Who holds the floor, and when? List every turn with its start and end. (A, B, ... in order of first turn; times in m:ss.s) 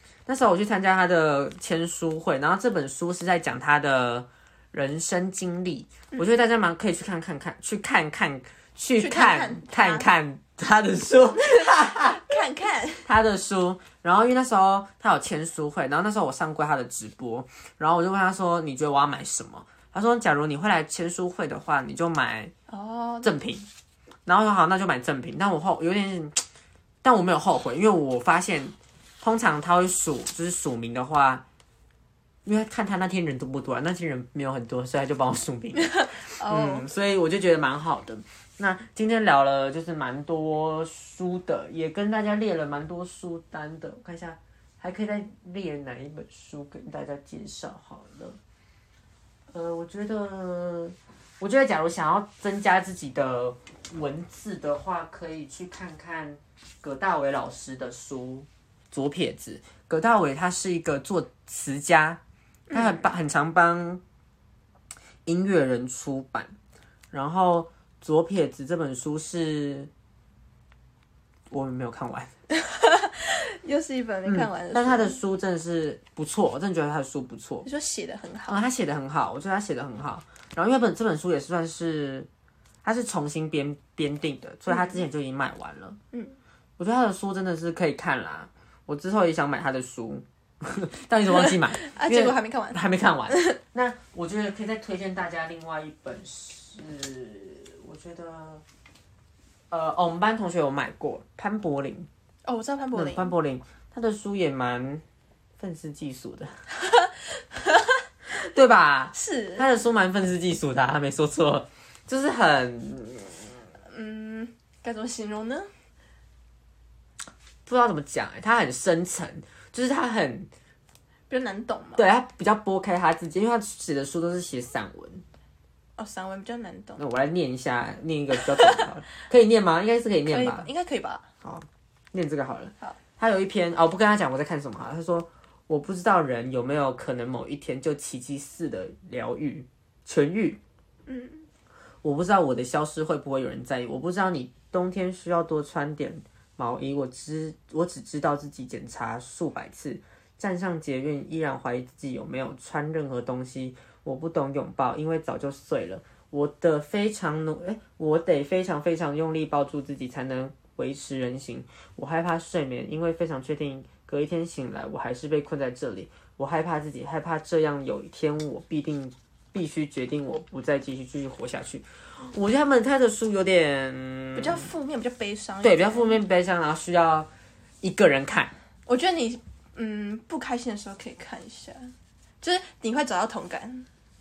0:00.2-0:12.4 A
0:09.0-0:10.0 B
0:11.3-0:13.1 B
0:13.0-0:22.5 A
0:22.7-0:23.3 B
0:23.2-0:23.7 A
0:24.2-0:26.4 A
0:27.0-0:31.4 A
0:32.4-0:48.4 A
0:35.7-0:36.9 B
0:49.5-1:04.0 A
1:02.7-1:03.1 B
1:05.2-1:06.5 A
1:07.1-1:09.9 A
1:11.5-1:12.3 A
1:12.5-1:15.2 B
1:14.2-1:17.7 A
1:17.6-1:18.6 B
1:18.5-1:22.3 A
1:22.8-1:26.0 A
1:24.7-1:25.0 B
1:26.8-1:38.6 A
1:31.3-1:32.8 B
1:33.3-1:33.6 B
1:39.7-1:42.1 A
1:42.4-1:43.3 B
1:42.9-1:45.0 A
1:45.6-1:46.6 A
1:46.7-1:48.0 B
1:48.3-1:53.5 A
1:49.1-1:49.7 B
1:53.9-1:55.7 B
1:57.6-2:00.5 A
2:01.3-2:02.0 B
2:02.0-2:05.2 A
2:06.0-2:07.0 B
2:07.0-2:10.7 A
2:08.3-2:08.9 B
2:10.3-2:11.3 B
2:11.4-2:20.6 A
2:21.1-2:21.5 B
2:22.0-2:54.7 A
2:54.3-2:56.2 B
2:55.6-2:57.3 A
2:57.8-2:58.5 A
2:58.9-3:01.9 B
3:02.4-3:03.9 B